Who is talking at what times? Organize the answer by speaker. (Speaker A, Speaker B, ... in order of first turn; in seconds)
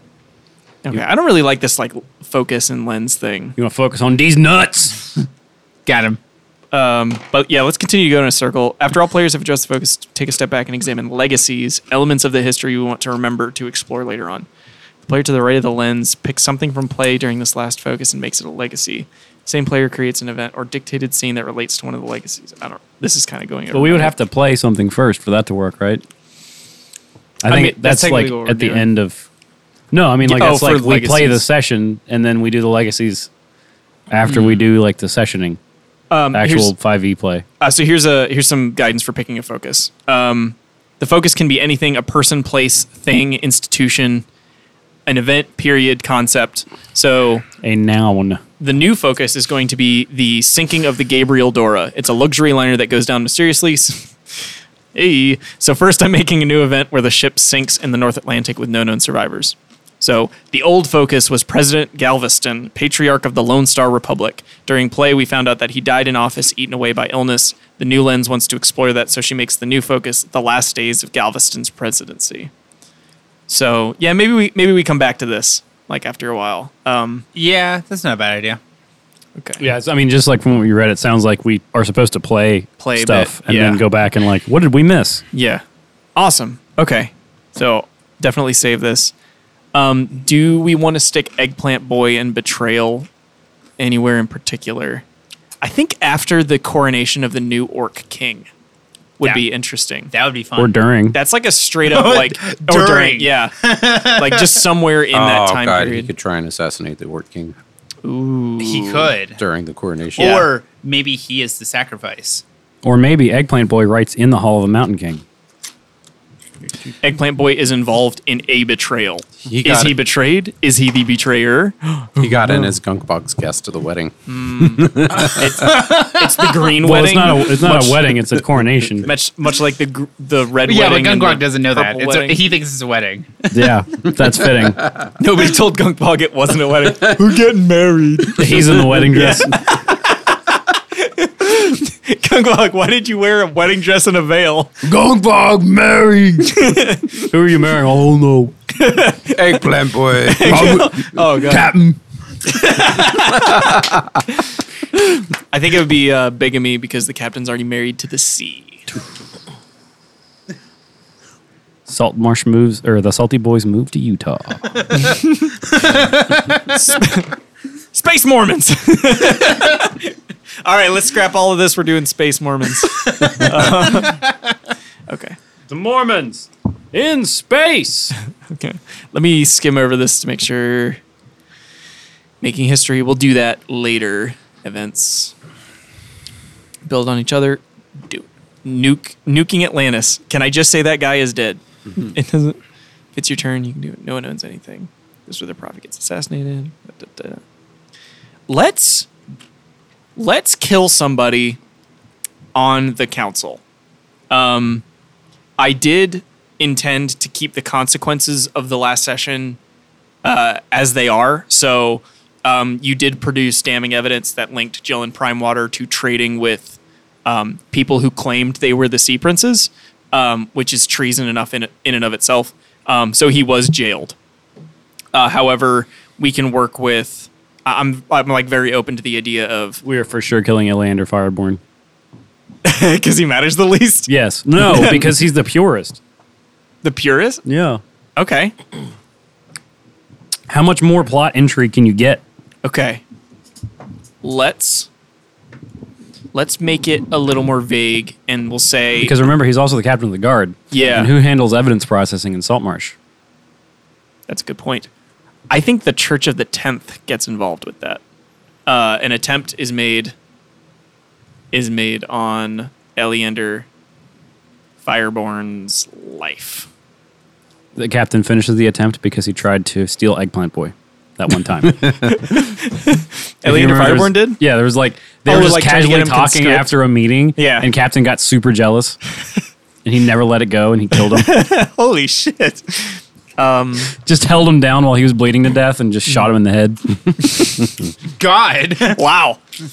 Speaker A: 0.8-3.5, 6.7-14.5, 15.0-24.1, 27.5-28.9, 30.2-31.4, 34.3-34.6, 36.1-36.7, 37.6-44.2, 45.0-47.5, 48.6-54.1, 54.9-72.5, 73.5-77.2, 79.4-79.6, 82.8-83.8, 85.3-85.6, 86.2-89.1, 89.7-93.1, 93.8-95.0, 95.6-98.5, 99.2-100.1, 101.1-106.1, 108.0-109.1, 117.0-122.7, 124.3-128.2, 129.0-132.4, 135.2-144.7, 146.4-147.2, 148.7-149.6, 150.2-151.8, 152.4-158.9, 165.0-165.5, 166.7-167.3, 167.9-174.2, 175.1-175.4, 178.5-181.0, 182.4-185.3, 186.8-192.6, 193.1-197.4, 198.5-199.1, 200.2-201.6, 202.5-203.6, 204.3-204.8, 205.6-209.6, 210.2-224.2, 225.1-229.8, 232.6-235.1, 236.8-237.4, 238.2-238.5, 242.6-243.0, 244.2-244.9, 246.3-249.2, 250.7-251.1, 254.3-254.9, 255.5-258.0, 258.6-260.1, 261.5-263.7, 264.8-266.7, 272.0-274.4, 275.2-276.8, 277.3-277.7, 280.9-283.9, 288.9-289.4
Speaker B: 3.6-5.1, 23.7-26.0, 27.4-29.2, 29.9-33.3, 34.1-35.6, 36.3-37.4, 47.6-48.4, 79.6-85.2, 100.6-101.2, 112.8-115.2, 126.7-129.1, 133.5-134.9, 138.3-139.6, 144.8-148.5, 150.4-152.0, 161.9-165.1, 175.7-178.1, 229.8-231.6, 234.1-236.0, 237.4-237.8, 240.5-242.2, 249.0-252.9, 267.8-272.4, 273.4-279.0, 279.8-281.3, 284.0-287.5
Speaker C: 5.8-6.2, 77.3-78.6, 100.1-100.8, 101.8-104.6, 108.6-109.4, 110.2-112.4, 125.6-126.5, 130.7-133.7, 165.9-166.6, 288.2-289.0
Speaker D: 105.1-107.5, 109.4-110.5, 119.4-120.0, 122.2-125.7, 149.3-151.0, 153.3-154.2